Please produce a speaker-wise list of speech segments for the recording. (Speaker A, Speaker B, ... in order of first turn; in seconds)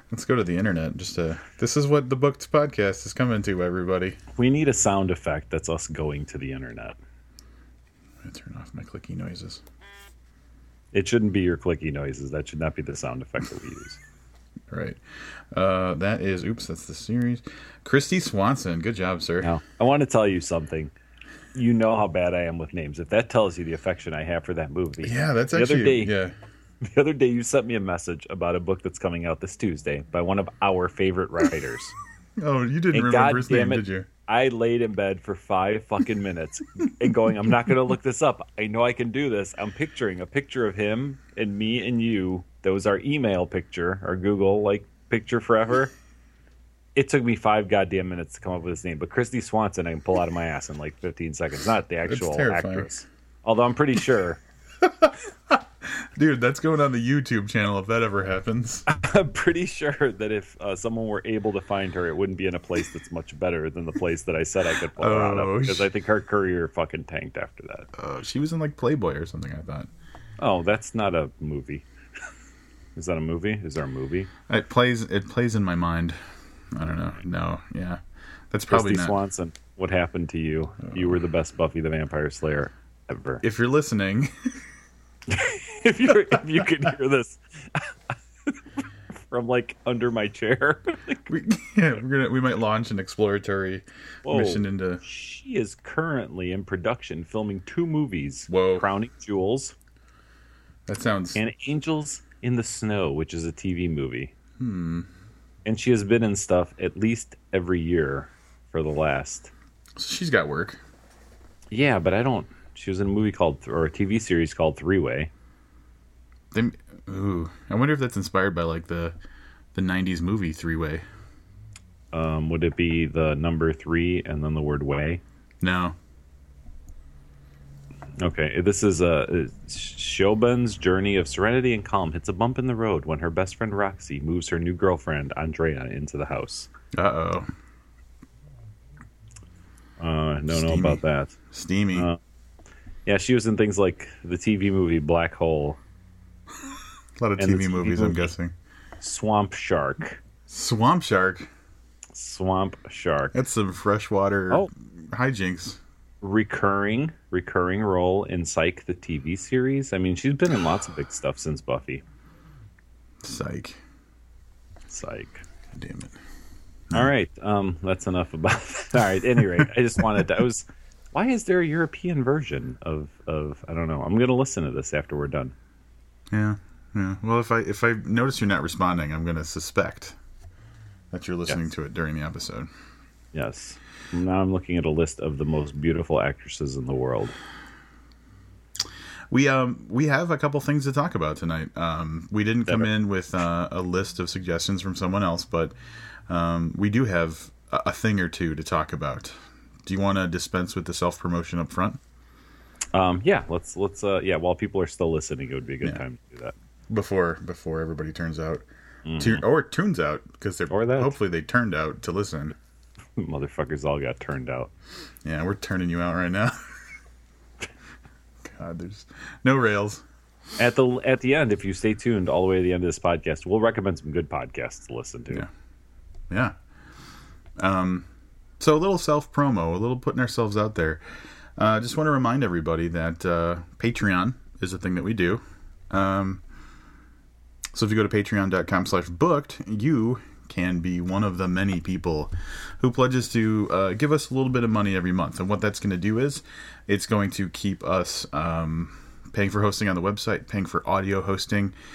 Speaker A: 0.1-4.2, 8.2-9.6, 14.7-15.0, 15.5-19.5, 25.0-26.3, 32.4-34.1, 52.1-52.9, 54.8-58.8, 65.0-65.9, 67.9-69.9, 74.5-76.2, 76.7-78.0, 78.5-79.2, 83.4-84.6, 91.3-95.0, 98.5-98.9, 100.9-101.4, 104.6-105.1, 110.0-110.8, 116.5-119.2, 119.7-121.0, 125.6-126.0, 136.9-137.5, 140.5-141.0, 141.5-142.1, 147.2-148.5, 150.5-151.5, 153.3-155.8, 163.2-163.8, 165.7-166.1, 169.4-169.7, 176.3-180.2, 181.1-182.7, 189.3-195.8, 196.3-202.0, 206.9-208.7, 209.2-212.5, 215.2-216.8, 218.4-220.0, 226.3-226.6, 227.6-228.1, 228.6-236.4, 237.7-251.8
Speaker B: 4.3-7.0, 10.9-14.0, 19.4-20.9, 21.5-26.1, 26.8-31.9, 32.9-45.9, 47.0-54.4, 58.9-67.9, 70.4-71.9, 73.0-74.3, 78.7-83.4, 85.3-91.3, 94.2-99.8, 101.3-104.3, 105.6-109.5, 111.7-115.3, 122.1-125.2, 128.2-136.7, 140.0-141.4, 141.9-142.2, 143.1-145.8, 147.4-148.3, 149.0-150.2, 152.1-153.3, 156.2-162.0, 164.9-165.4, 166.9-175.5, 183.3-187.4, 202.9-206.6, 209.1-209.4, 210.7-211.2, 213.2-214.7, 220.6-225.5